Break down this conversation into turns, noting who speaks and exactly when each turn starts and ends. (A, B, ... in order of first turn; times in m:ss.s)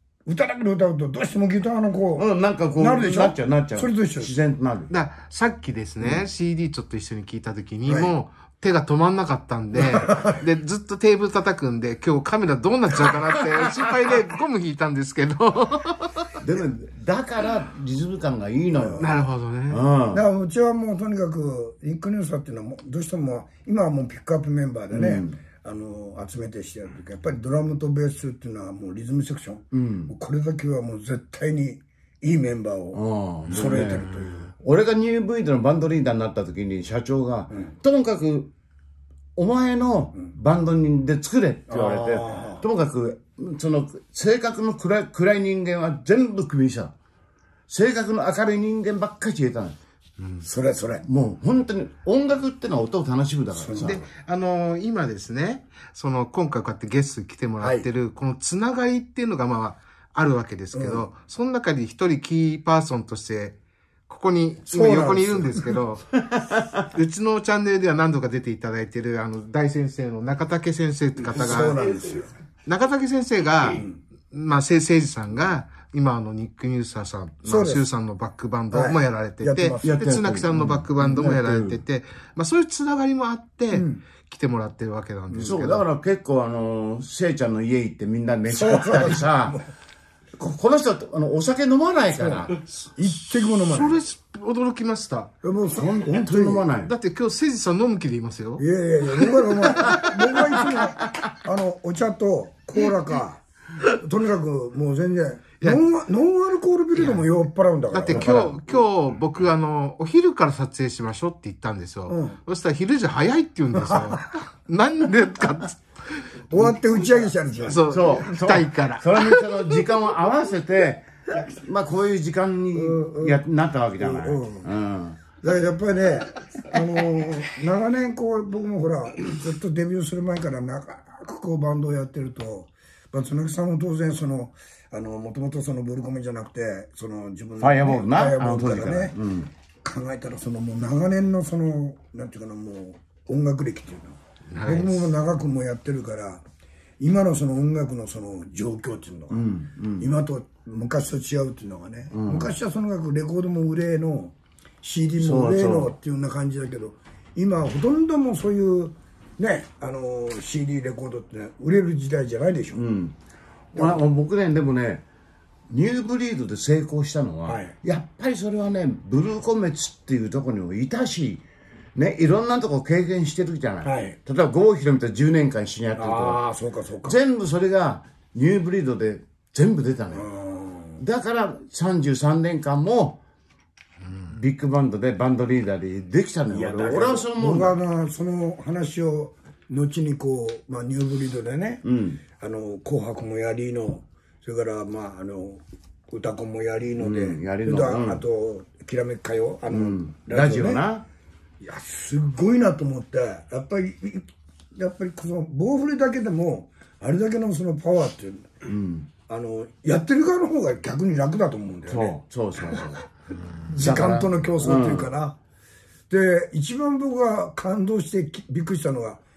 0:00.2-0:04.3 A
0:02.2-0:04.9 B
0:04.9-0:16.3 C
0:07.9-0:08.1 A
0:09.8-0:10.4 A
0:16.4-0:19.1 B
0:18.7-0:19.1 A
0:19.0-0:19.8 C
0:19.7-0:20.2 B
0:20.1-0:34.5 A
0:24.9-0:25.4 B
0:29.7-0:30.1 B
0:32.9-0:38.5 B
0:39.4-0:46.9 B
0:41.7-0:42.6 A
0:47.7-0:49.8 B
0:50.4-0:51.0 A
0:51.0-0:54.0 B
0:53.5-0:54.0 A
0:53.8-1:03.6 C
0:57.6-0:57.8 A
1:00.7-1:01.1 A
1:04.1-1:06.0 C
1:04.7-1:05.8 A
1:06.9-1:11.8 C
1:11.2-1:12.3 A
1:12.6-1:25.8 C
1:17.4-1:17.8 A
1:18.7-1:20.0 A
1:19.8-1:21.8 B
1:23.7-1:24.0 A
1:25.3-1:29.6 B
1:28.5-1:29.6 A
1:30.4-1:32.5 B
1:32.1-1:34.0 A
1:33.3-1:35.3 C
1:35.4-1:36.7 A
1:35.7-1:36.9 B
1:36.8-1:38.6 C
1:38.6-1:48.6 A
1:39.2-1:40.1 C
1:46.9-1:47.2 C
1:47.9-1:56.3 C
1:48.1-1:48.5 B
1:52.1-1:52.4 A
1:56.5-1:58.3 A
1:57.7-1:59.6 C
1:57.9-2:05.2 B
2:02.7-2:03.4 A
2:04.0-2:04.7 A
2:05.4-2:19.2 A
2:17.6-2:19.5 B
2:19.8-2:26.4 A
2:24.5-2:25.1 C
2:27.0-2:29.5 A
2:29.3-2:30.1 B
2:30.0-2:42.8 A
2:32.1-2:32.5 B
2:35.2-2:35.9 B
2:42.7-2:43.1 B
2:43.7-2:45.0 B
2:43.7-2:44.0 A
2:45.7-2:51.4 B
2:47.4-2:47.7 A
2:51.9-2:56.4 B
2:53.8-2:54.2 A
2:56.0-2:57.2 A
2:57.0-3:00.3 B
3:00.1-3:01.0 A
3:01.0-3:03.2 B
3:04.2-3:07.8 B
3:06.5-3:11.8 A
3:11.8-3:12.2 B
3:12.3-3:20.8 A
3:17.0-3:18.2 B
3:19.7-3:21.0 B
3:21.6-3:28.5 A
3:28.6-3:29.1 B
3:29.3-3:32.9 A
3:31.9-3:33.1 B
3:33.7-3:35.4 A
3:33.7-3:35.1 B
3:36.1-3:39.2 A